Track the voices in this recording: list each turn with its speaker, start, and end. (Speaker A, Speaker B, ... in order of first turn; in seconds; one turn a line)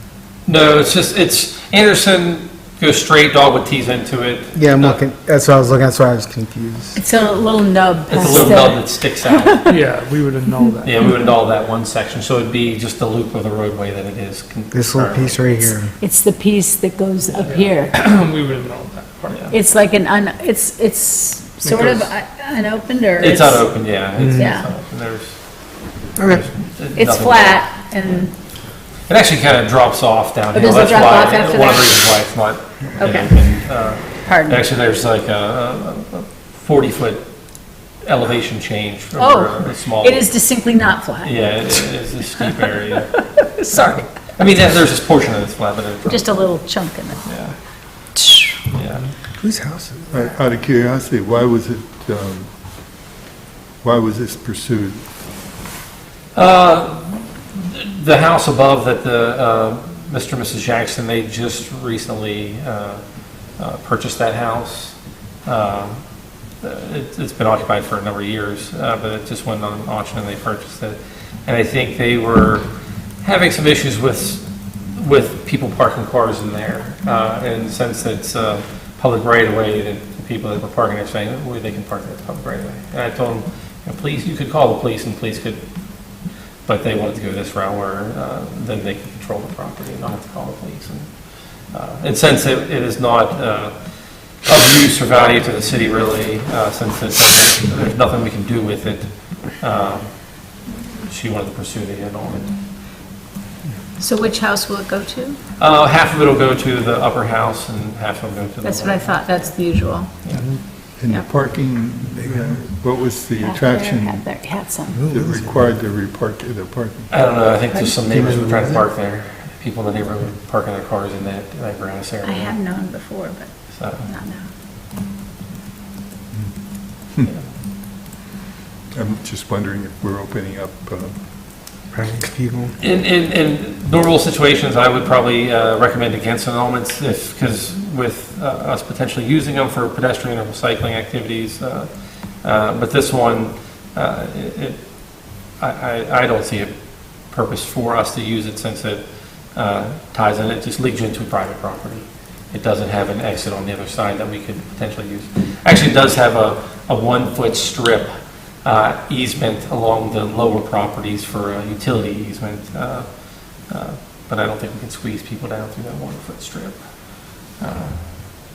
Speaker A: 0.5-5.0
Speaker B: 4.5-7.0
Speaker C: 7.0-9.6
Speaker A: 8.1-9.7
Speaker D: 9.7-11.0
Speaker A: 10.8-15.8
Speaker B: 14.7-15.9
Speaker C: 16.0-17.9
Speaker D: 17.4-19.6
Speaker C: 19.5-24.7
Speaker D: 21.6-22.1
Speaker A: 23.2-28.2
Speaker B: 24.2-24.5
Speaker B: 26.2-26.4
Speaker C: 26.9-28.3
Speaker A: 29.0-37.3
Speaker C: 30.5-31.9
Speaker C: 33.0-33.4
Speaker C: 34.2-34.6
Speaker A: 37.9-40.3
Speaker C: 39.2-44.1
Speaker A: 41.2-43.2
Speaker A: 43.7-46.2
Speaker C: 46.1-47.2
Speaker A: 47.2-47.5
Speaker C: 48.1-48.6
Speaker A: 48.7-49.1
Speaker B: 49.4-50.0
Speaker E: 50.1-52.5
Speaker E: 53.8-55.0
Speaker A: 56.3-63.0
Speaker A: 63.6-66.0
Speaker A: 66.6-72.7
Speaker A: 73.2-85.7
Speaker A: 86.7-93.7
Speaker A: 94.3-100.5
Speaker A: 101.0-102.5
Speaker C: 104.0-105.4
Speaker A: 105.6-109.5
Speaker C: 108.6-110.1
Speaker E: 110.3-114.3
Speaker B: 112.2-112.6
Speaker C: 113.4-115.0
Speaker B: 115.0-115.6
Speaker E: 115.0-117.2
Speaker A: 117.1-122.6
Speaker B: 118.1-118.8
Speaker C: 122.2-124.5
Speaker A: 123.7-124.1
Speaker E: 128.9-131.2
Speaker B: 131.9-132.8
Speaker A: 132.8-141.9
Speaker A: 142.4-149.0
Speaker A: 149.5-166.8
Speaker A: 167.5-168.0